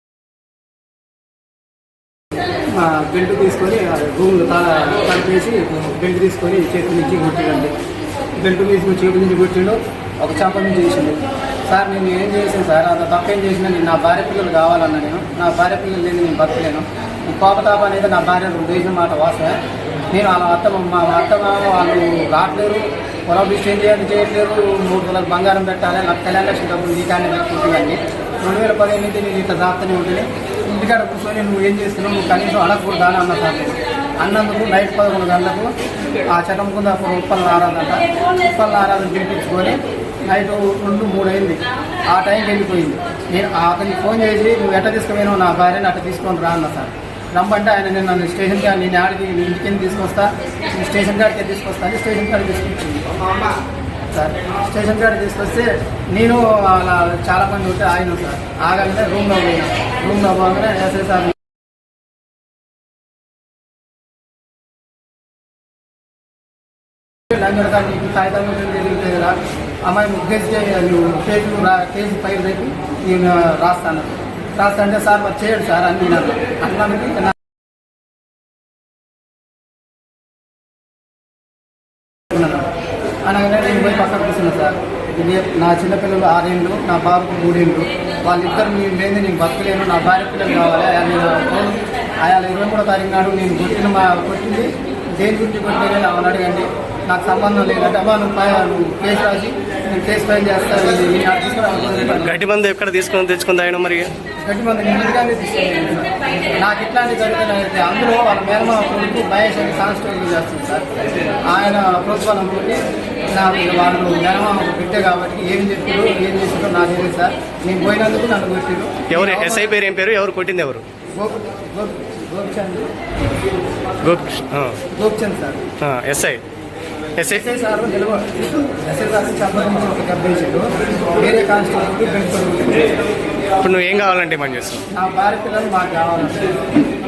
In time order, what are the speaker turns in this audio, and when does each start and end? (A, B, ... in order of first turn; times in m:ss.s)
0:02.7-0:07.7 A
0:08.4-0:19.6 A
0:20.1-0:35.7 A
0:36.3-0:53.0 A
0:54.1-1:01.4 A
1:07.3-1:17.4 A
1:22.3-1:22.7 A
1:23.2-1:42.4 A
1:42.2-1:44.1 B
1:44.4-1:50.8 A
1:51.5-1:59.7 A
1:59.1-2:00.8 B
2:01.2-2:02.9 A
2:04.0-2:04.8 B
2:04.9-2:05.6 A
2:05.8-2:06.4 B
2:07.2-2:07.4 B
2:07.2-2:12.9 A
2:13.6-2:14.8 B
2:14.9-2:16.6 A